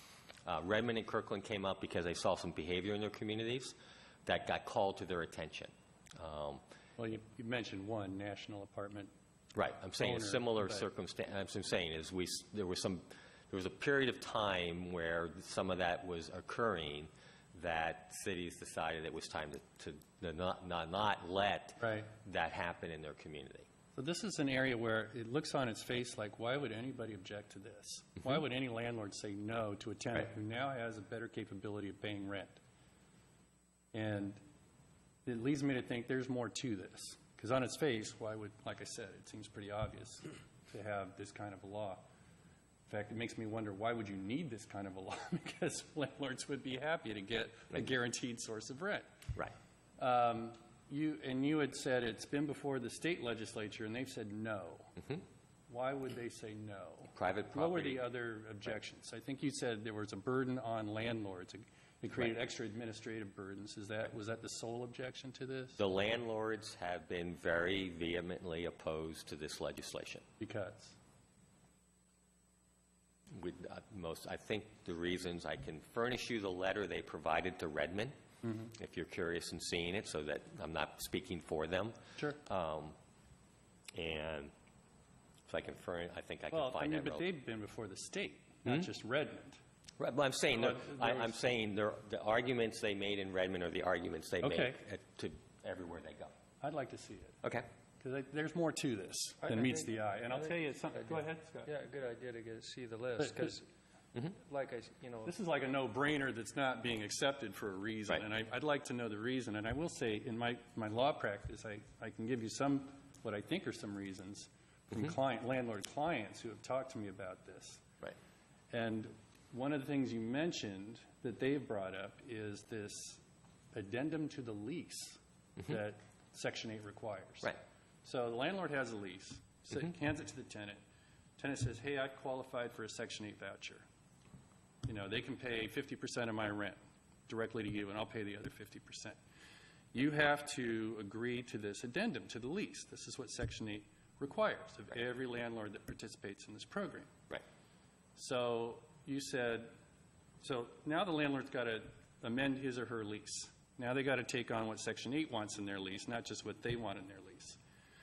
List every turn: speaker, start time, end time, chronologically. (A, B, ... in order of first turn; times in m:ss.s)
0:00.5-0:03.7 A
0:04.3-0:06.6 A
0:07.0-0:09.1 B
0:09.6-0:23.7 A
0:10.0-0:10.8 B
0:21.8-0:22.1 B
0:24.0-0:32.6 B
0:33.9-0:34.4 B
0:35.3-0:42.0 B
0:42.9-0:49.1 B
0:50.0-0:55.1 B
0:55.7-1:05.8 B
0:57.1-0:58.1 A
1:05.8-1:10.2 A
1:10.4-1:11.0 B
1:13.3-1:18.2 A
1:18.7-1:23.0 A
1:23.9-1:24.5 A
1:25.5-1:27.3 A
1:26.5-1:29.6 B
1:30.0-1:36.3 A
1:30.5-1:31.3 B
1:34.4-1:34.8 B
1:36.6-1:37.4 B
1:38.0-1:41.7 B
1:39.5-1:43.7 C
1:43.2-1:43.5 B
1:44.2-1:45.3 C
1:45.2-1:57.8 B
1:58.7-2:03.2 B
2:03.7-2:10.8 B
2:11.4-2:13.8 B
2:14.8-2:19.2 B
2:19.9-2:27.1 B
2:28.2-2:29.8 B
2:30.4-2:37.6 B